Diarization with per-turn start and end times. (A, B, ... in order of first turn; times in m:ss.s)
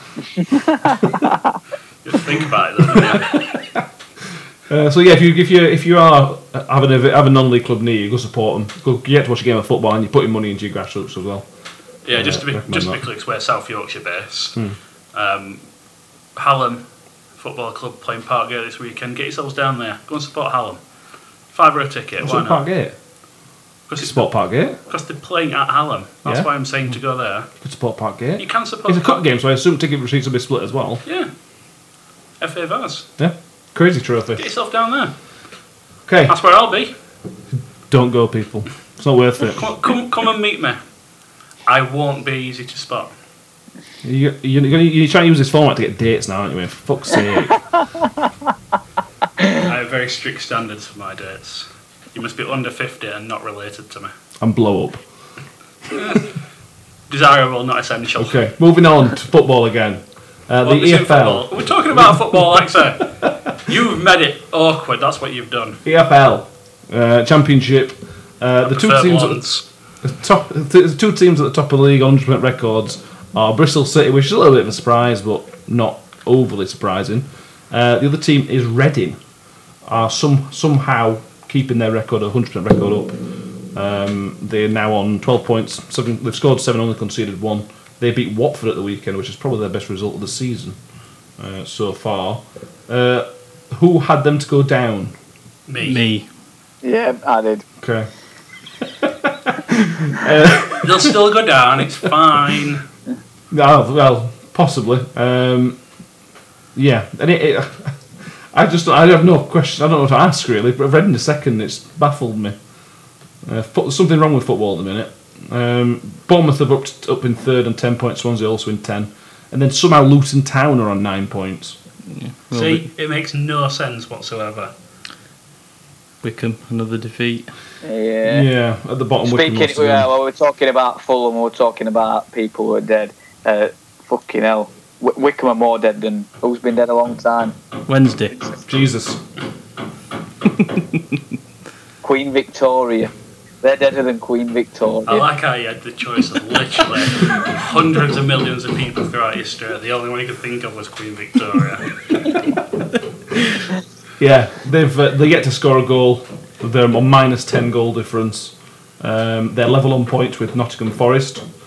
0:00.9-0:01.1 A
0:02.0-0:03.6 B
0:02.8-0:03.8 A
0:04.7-0:11.4 A
0:12.0-0:14.6 B
0:12.1-0:13.0 A
0:15.1-0:15.6 B
0:16.4-0:16.8 B
0:17.4-0:20.8 B
0:21.5-0:22.6 B
0:22.2-0:22.9 A
0:23.9-0:24.3 B
0:24.0-0:24.8 A
0:24.8-0:27.5 B
0:27.6-0:31.0 A
0:28.4-0:29.2 B
0:31.0-0:31.3 B
0:32.4-0:33.1 B
0:33.2-0:34.4 A
0:34.4-0:35.1 B
0:36.0-0:36.4 A
0:36.3-0:36.9 B
0:37.9-0:39.6 A
0:39.5-0:40.8 B
0:41.6-0:43.1 B
0:44.0-0:47.6 A
0:49.5-0:54.1 B
0:54.4-0:55.0 A
0:55.9-0:56.3 B
0:57.1-0:58.4 B
0:58.2-1:02.5 A
1:00.6-1:05.8 B
1:05.8-1:09.4 A
1:08.6-1:09.6 B
1:10.0-1:19.2 A
1:19.8-1:23.1 A
1:23.7-1:30.8 A
1:31.4-1:35.1 A
1:35.7-1:36.0 B
1:35.8-1:36.3 C
1:36.8-1:37.6 D
1:37.8-1:38.1 A
1:38.8-1:41.1 A
1:40.7-1:42.8 B
1:43.5-1:45.8 A
1:46.7-1:52.6 A
1:53.4-2:01.8 A
2:02.1-2:02.9 C
2:02.5-2:04.7 B
2:06.2-2:07.5 C
2:07.8-2:08.5 D
2:08.2-2:10.1 A
2:09.2-2:17.6 D
2:17.9-2:18.4 C
2:18.7-2:19.2 A
2:22.0-2:25.2 D
2:25.1-2:32.0 B
2:34.2-2:41.4 A